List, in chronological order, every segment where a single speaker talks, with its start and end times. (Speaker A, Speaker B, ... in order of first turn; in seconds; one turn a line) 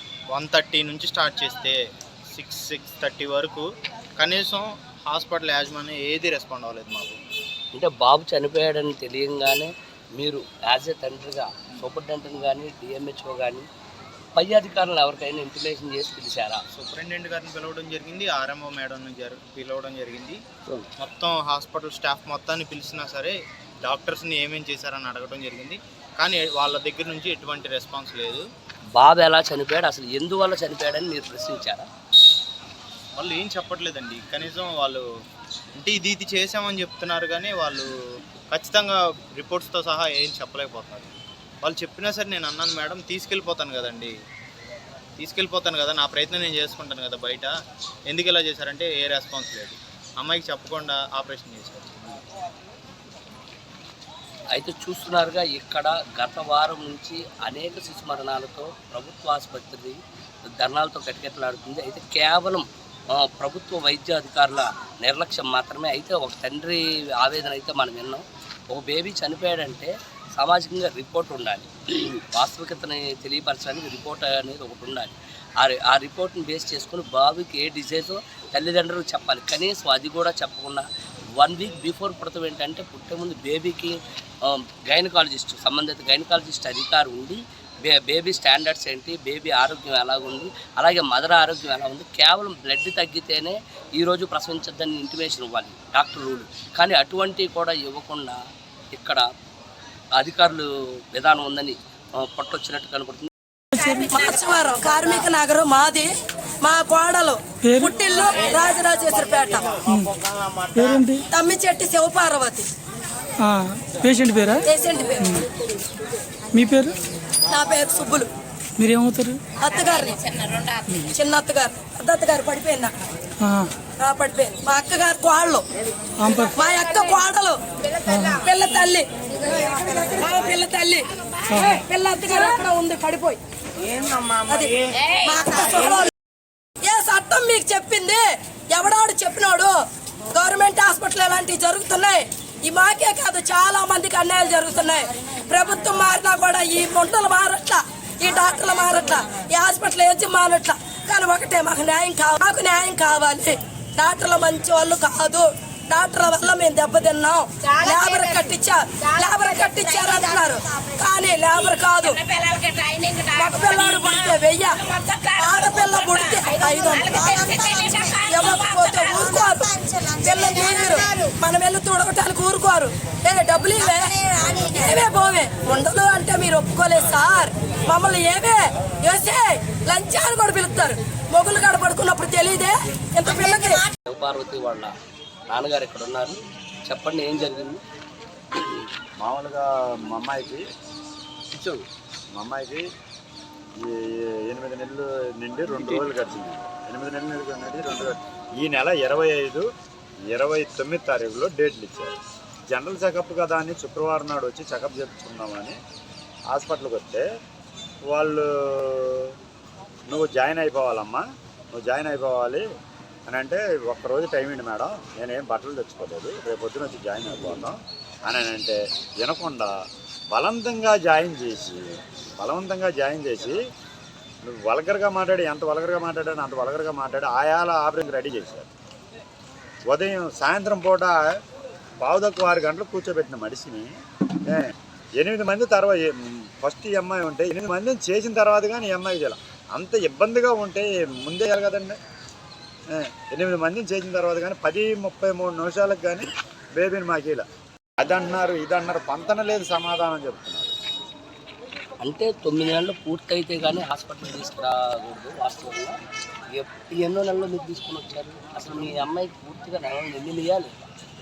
Speaker A: 0.3-1.8
Speaker A: 2.3-3.7
Speaker A: 4.2-7.2
Speaker B: 7.7-13.7
Speaker B: 14.3-16.6
Speaker A: 16.7-20.4
Speaker A: 21.0-28.4
Speaker B: 28.9-31.9
Speaker A: 33.2-35.0
Speaker A: 35.8-37.9
Speaker A: 38.5-44.1
Speaker A: 45.2-47.5
Speaker A: 48.1-52.2
Speaker B: 54.5-60.0
Speaker B: 60.5-98.4
Speaker B: 98.9-99.2
Speaker B: 100.2-103.3
Speaker C: 103.9-106.1
Speaker C: 106.6-109.8
Speaker D: 110.8-111.2
Speaker C: 111.3-112.7
Speaker D: 113.4-114.6
Speaker C: 114.7-115.4
Speaker D: 116.5-117.0
Speaker C: 117.5-118.3
Speaker D: 118.8-119.4
Speaker C: 119.6-120.3
Speaker C: 121.0-122.9
Speaker D: 123.4-123.7
Speaker C: 124.0-125.7
Speaker C: 126.5-127.6
Speaker C: 128.3-129.1
Speaker C: 129.6-133.4
Speaker C: 134.4-136.1
Speaker C: 136.8-139.8
Speaker C: 140.3-162.2
Speaker C: 163.3-183.8
Speaker B: 184.1-184.9
Speaker B: 185.5-187.8
Speaker B: 188.6-188.8
Speaker E: 189.2-190.7
Speaker B: 191.5-191.8
Speaker E: 192.3-192.8
Speaker E: 193.8-199.7
Speaker E: 200.3-202.2
Speaker E: 202.7-205.8
Speaker E: 206.5-207.2
Speaker E: 208.1-209.3
Speaker E: 210.1-211.2
Speaker E: 211.7-212.6
Speaker E: 213.3-219.7
Speaker E: 220.3-223.6
Speaker E: 224.4-228.7
Speaker E: 229.9-231.3
Speaker E: 232.0-233.9
Speaker E: 234.5-242.0
Speaker E: 242.9-247.4
Speaker E: 248.0-250.7
Speaker B: 252.0-255.9
Speaker B: 256.5-260.9